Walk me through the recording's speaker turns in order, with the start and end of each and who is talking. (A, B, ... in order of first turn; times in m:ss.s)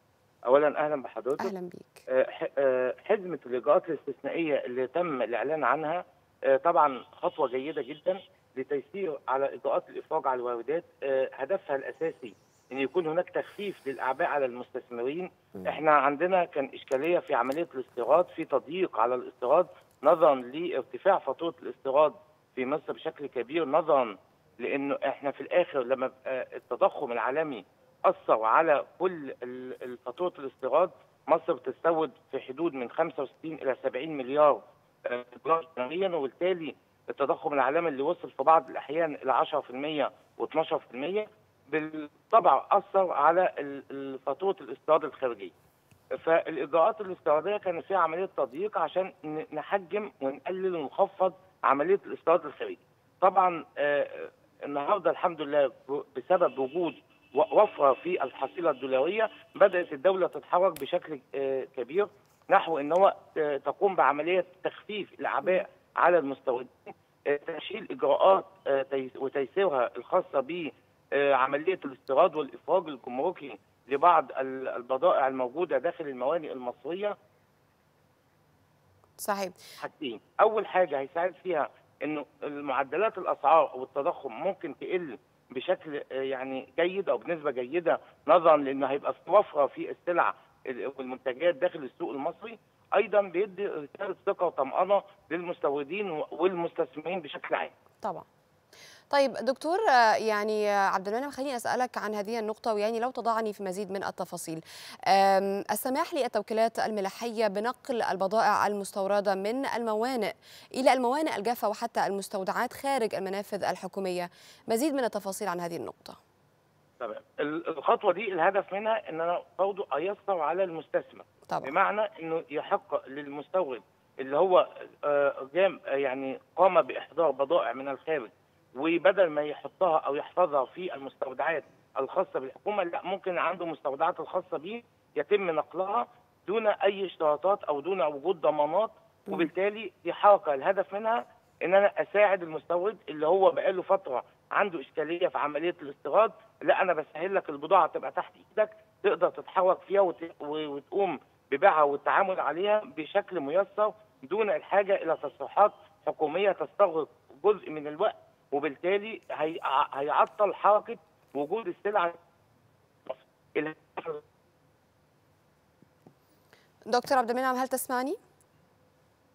0:00.5-0:01.5 A
0:01.4-0:02.0 B
0:02.1-0:45.5 A
0:46.2-1:17.1 A
1:19.2-1:19.6 B
1:19.8-1:37.7 A
1:39.1-1:56.2 B
1:57.0-2:42.2 A
2:43.1-2:44.2 A
2:46.9-2:48.2 B